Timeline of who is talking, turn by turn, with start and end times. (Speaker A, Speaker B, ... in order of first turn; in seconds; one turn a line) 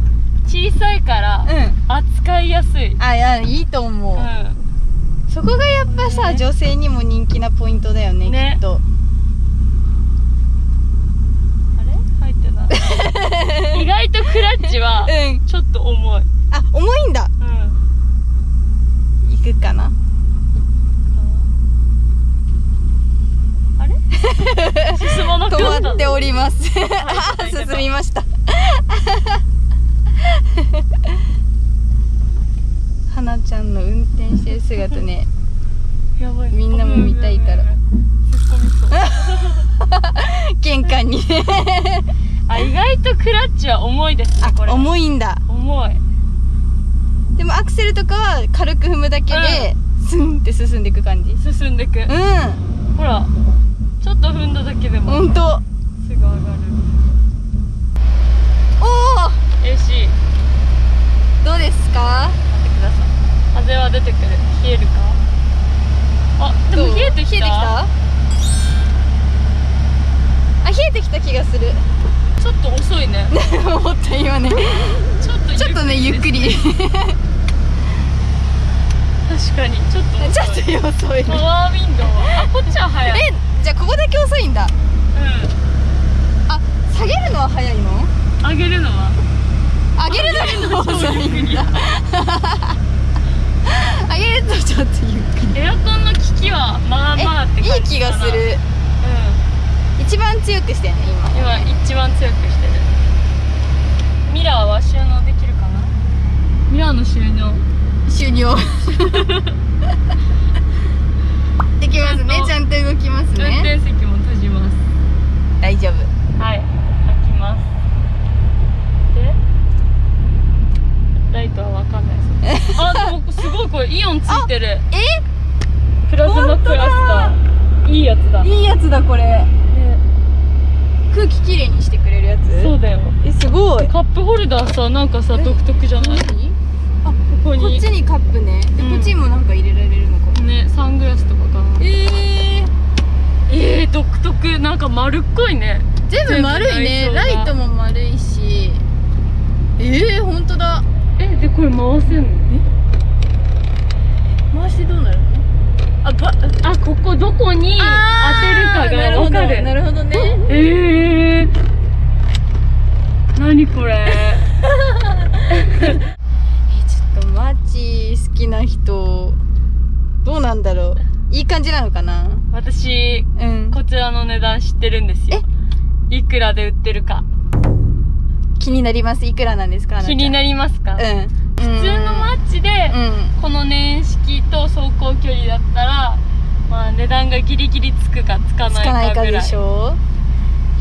Speaker A: 0.5-3.0
Speaker B: 1.4-1.8
Speaker B: 3.0-4.3
Speaker A: 4.2-4.6
Speaker B: 5.3-8.8
Speaker A: 5.9-6.4
Speaker A: 8.2-8.6
Speaker A: 11.8-12.9
Speaker B: 12.8-13.8
Speaker A: 13.7-16.3
Speaker B: 15.0-15.4
Speaker B: 16.5-17.3
Speaker A: 17.4-17.8
Speaker B: 19.2-19.9
Speaker A: 21.1-21.5
Speaker A: 23.8-24.0
Speaker B: 24.2-29.4
Speaker A: 24.8-27.9
Speaker B: 30.5-30.8
Speaker B: 33.1-35.3
Speaker A: 36.2-39.7
Speaker B: 36.5-37.7
Speaker B: 39.0-42.1
Speaker A: 42.5-44.9
Speaker B: 44.4-45.4
Speaker A: 45.5-46.0
Speaker B: 47.4-51.4
Speaker A: 49.3-49.7
Speaker A: 51.4-52.1
Speaker B: 52.1-52.6
Speaker A: 53.0-53.3
Speaker A: 54.0-55.5
Speaker B: 55.0-55.6
Speaker A: 56.0-57.2
Speaker B: 58.8-59.4
Speaker A: 59.6-60.2
Speaker B: 61.4-62.4
Speaker A: 62.5-65.2
Speaker A: 66.4-67.8
Speaker B: 66.7-67.9
Speaker B: 70.6-71.8
Speaker A: 72.4-73.3
Speaker B: 73.3-77.2
Speaker A: 75.2-76.6
Speaker A: 79.2-80.7
Speaker B: 80.2-81.5
Speaker A: 81.3-83.3
Speaker B: 83.0-84.7
Speaker A: 85.1-85.5
Speaker B: 86.5-88.1
Speaker A: 88.4-89.2
Speaker B: 90.0-92.8
Speaker A: 90.1-91.9
Speaker B: 93.7-95.6
Speaker A: 95.5-98.5
Speaker B: 97.2-98.6
Speaker A: 99.0-99.4
Speaker B: 100.0-101.7
Speaker A: 101.3-102.9
Speaker A: 104.3-106.0
Speaker A: 106.7-107.7
Speaker B: 108.1-109.2
Speaker A: 109.2-109.5
Speaker B: 111.8-113.7
Speaker A: 111.9-112.6
Speaker A: 113.3-114.8
Speaker B: 115.6-116.1
Speaker A: 116.4-117.7
Speaker A: 119.1-119.4
Speaker A: 121.3-124.9
Speaker B: 122.4-123.1
Speaker B: 124.3-125.2
Speaker A: 126.1-128.5
Speaker B: 126.2-127.4
Speaker B: 128.4-129.5
Speaker A: 129.7-130.0
Speaker B: 131.1-133.9
Speaker A: 132.5-133.2
Speaker A: 133.8-136.3
Speaker B: 135.3-140.4
Speaker A: 137.3-137.8
Speaker A: 138.8-139.2
Speaker A: 140.3-141.9
Speaker B: 141.8-142.7
Speaker A: 143.5-147.5
Speaker B: 146.1-148.8
Speaker B: 149.8-150.8
Speaker A: 151.2-152.5
Speaker B: 154.5-155.5
Speaker A: 156.0-159.7
Speaker B: 157.8-160.5
Speaker A: 160.4-161.5
Speaker A: 163.3-164.5
Speaker A: 165.5-166.0
Speaker B: 166.7-169.4
Speaker B: 170.2-172.5
Speaker A: 172.5-175.4
Speaker B: 173.4-173.8
Speaker A: 176.1-177.2
Speaker B: 178.6-180.4
Speaker A: 180.0-181.1
Speaker B: 181.0-182.4
Speaker A: 181.6-189.6
Speaker B: 182.9-183.4
Speaker B: 188.7-190.0